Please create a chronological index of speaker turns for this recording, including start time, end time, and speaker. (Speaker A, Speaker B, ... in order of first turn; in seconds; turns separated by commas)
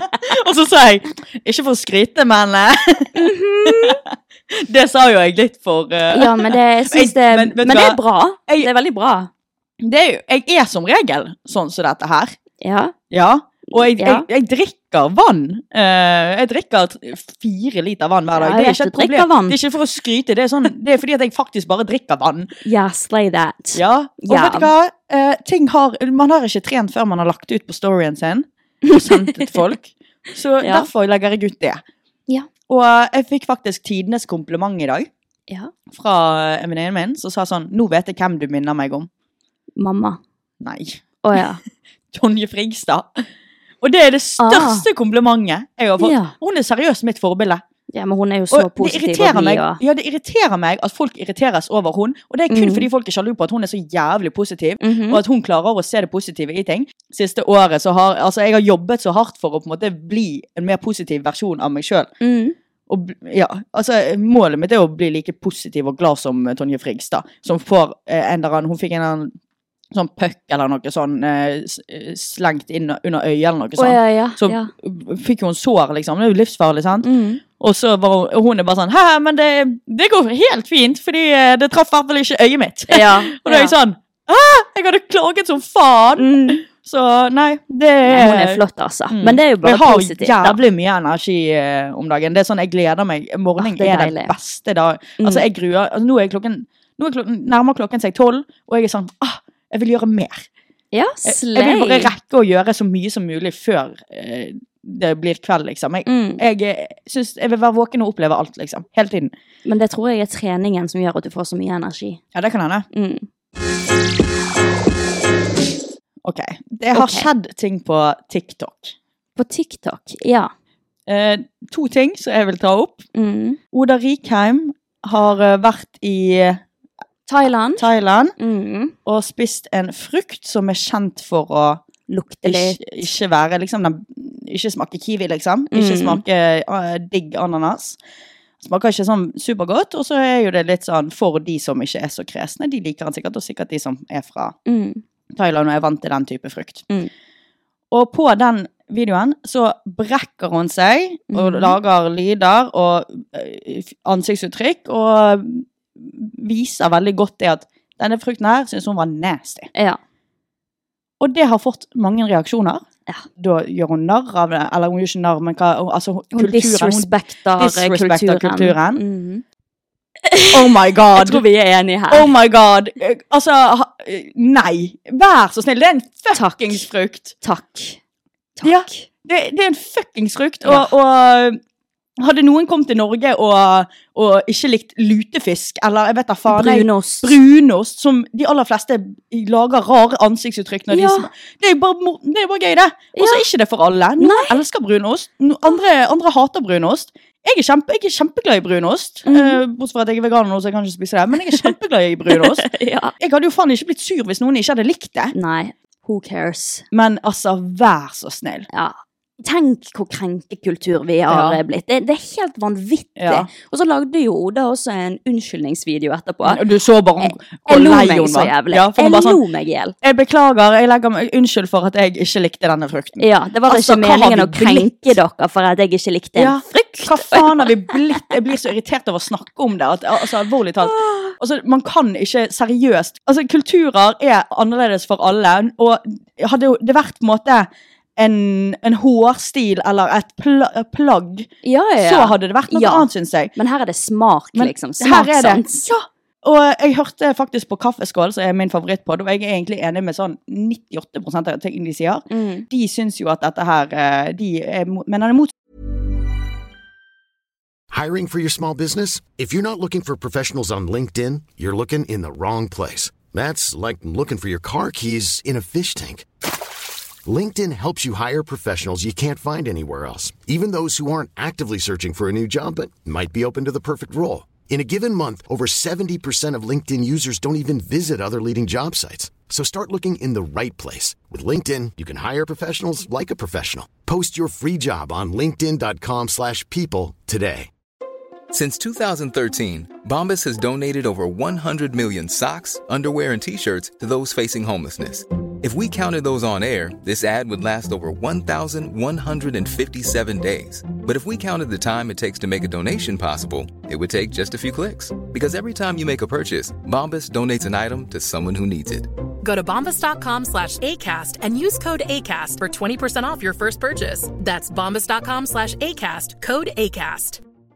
Speaker A: 0.2-8.7, Speaker B: 3.1-4.0, Speaker B: 6.1-9.3, Speaker A: 9.8-12.3, Speaker B: 12.6-12.9, Speaker A: 13.1-22.5, Speaker B: 13.7-14.2, Speaker B: 18.3-19.6, Speaker B: 22.6-24.7, Speaker A: 23.7-31.8, Speaker B: 28.9-29.4, Speaker B: 30.6-30.9, Speaker A: 32.7-35.1, Speaker A: 35.9-39.1, Speaker B: 39.8-40.2, Speaker A: 40.6-41.0, Speaker B: 41.2-41.6, Speaker A: 42.1-43.2, Speaker A: 43.8-47.6, Speaker B: 44.4-44.8, Speaker B: 46.0-46.3, Speaker B: 47.9-49.8, Speaker A: 48.5-62.1, Speaker B: 52.5-52.9, Speaker B: 54.8-55.2, Speaker B: 62.2-62.5, Speaker A: 62.9-69.3, Speaker A: 69.9-77.1, Speaker B: 73.8-74.7, Speaker B: 77.0-77.4, Speaker A: 77.6-100.5, Speaker B: 82.9-83.7, Speaker B: 86.2-86.6, Speaker B: 88.0-90.6, Speaker B: 93.6-94.3, Speaker B: 100.9-102.1, Speaker A: 101.2-109.3, Speaker B: 106.0-106.4, Speaker B: 109.7-112.2, Speaker A: 112.3-112.8, Speaker B: 112.9-113.2, Speaker A: 116.2-118.9, Speaker B: 116.9-117.3, Speaker B: 119.4-120.5, Speaker A: 121.1-123.0, Speaker B: 123.1-123.6, Speaker A: 123.7-126.6, Speaker B: 127.3-127.8, Speaker A: 127.8-128.3, Speaker B: 128.4-128.9, Speaker A: 129.0-131.8, Speaker B: 132.1-132.9, Speaker A: 132.4-138.0, Speaker B: 135.7-136.2, Speaker A: 138.6-144.6, Speaker B: 144.7-145.0, Speaker A: 145.3-146.8, Speaker A: 147.9-159.7, Speaker B: 151.3-151.8, Speaker A: 161.2-162.8, Speaker A: 163.4-169.0, Speaker B: 166.3-169.4, Speaker B: 170.2-172.3, Speaker A: 170.5-171.4, Speaker A: 172.1-177.3, Speaker B: 176.3-176.8, Speaker B: 177.4-178.0, Speaker B: 178.6-179.1, Speaker A: 178.6-181.6, Speaker B: 180.6-180.9, Speaker A: 182.2-202.7, Speaker B: 186.5-187.3, Speaker B: 190.9-191.3, Speaker B: 193.1-193.4, Speaker B: 194.2-194.6, Speaker B: 199.2-199.6, Speaker B: 202.3-203.1, Speaker A: 203.2-205.3, Speaker B: 205.3-206.8, Speaker A: 206.9-208.7, Speaker B: 208.7-216.6, Speaker A: 211.3-211.6, Speaker A: 213.2-213.5, Speaker A: 216.4-219.4, Speaker B: 217.2-219.9, Speaker A: 220.0-225.0, Speaker B: 223.2-228.3, Speaker A: 226.4-243.5, Speaker B: 230.8-231.3, Speaker B: 241.6-245.7, Speaker A: 244.5-255.5, Speaker B: 252.3-252.7, Speaker C: 257.9-266.3, Speaker C: 267.2-287.7, Speaker D: 288.5-309.1, Speaker E: 309.4-317.4